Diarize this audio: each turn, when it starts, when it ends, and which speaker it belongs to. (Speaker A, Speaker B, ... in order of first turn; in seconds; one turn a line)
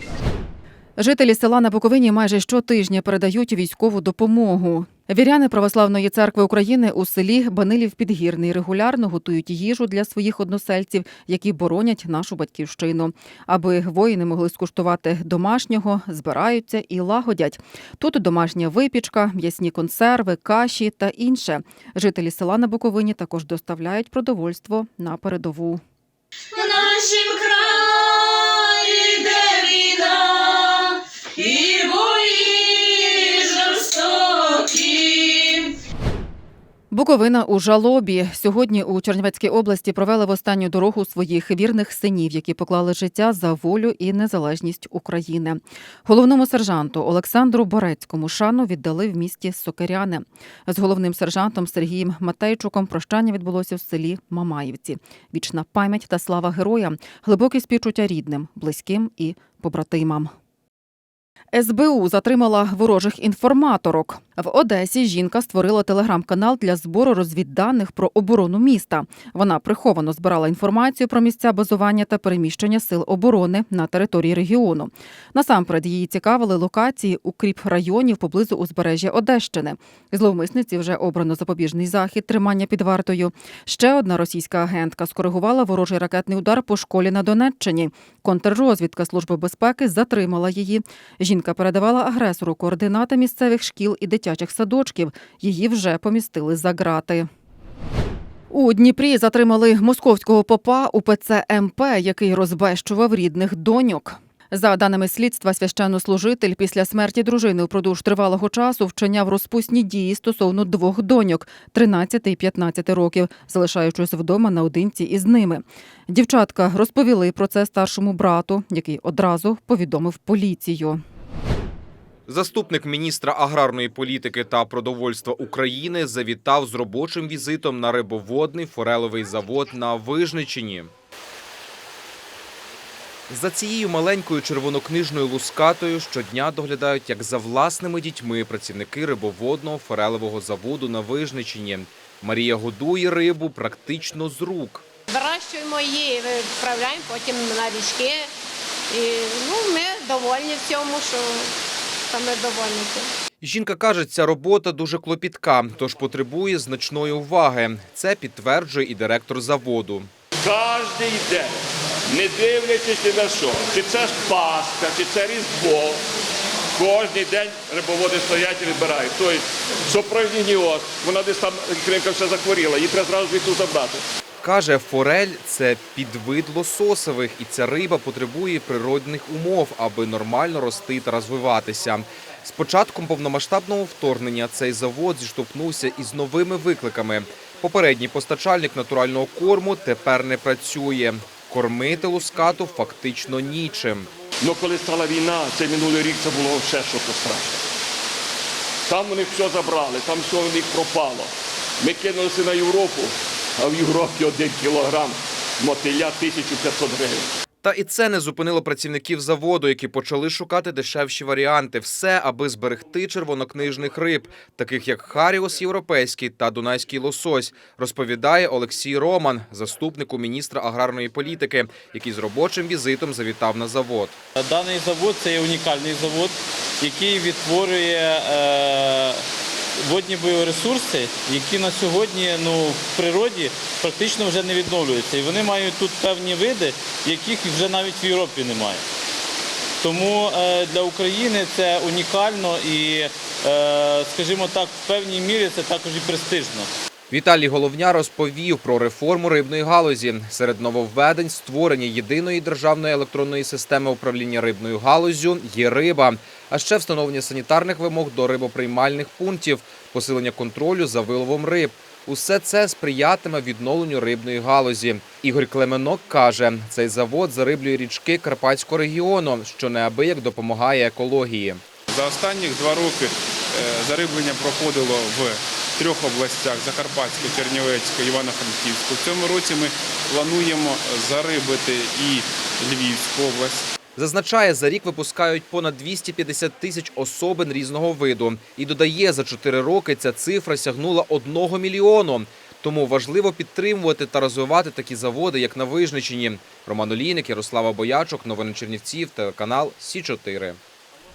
Speaker A: 1.0-25.8
Speaker B: 26.6-28.2
Speaker B: 28.9-30.7
Speaker B: 31.4-35.6
Speaker A: 36.9-60.3
Speaker A: 61.5-97.3
Speaker A: 98.5-121.0
Speaker C: 122.3-130.9
Speaker C: 133.3-144.8
Speaker D: 145.1-148.3
Speaker D: 148.9-151.5
Speaker D: 152.1-153.1
Speaker C: 153.4-160.1
Speaker E: 160.4-161.5
Speaker E: 162.1-166.0
Speaker E: 166.8-174.0
Speaker C: 174.4-194.1
Speaker E: 194.4-197.6
Speaker E: 198.9-201.3
Speaker E: 201.8-207.3
Speaker C: 207.6-224.2
Speaker F: 224.4-229.2
Speaker F: 229.8-238.8
Speaker F: 239.8-246.7
Speaker C: 247.1-271.6
Speaker G: 271.9-283.7
Speaker C: 284.0-300.6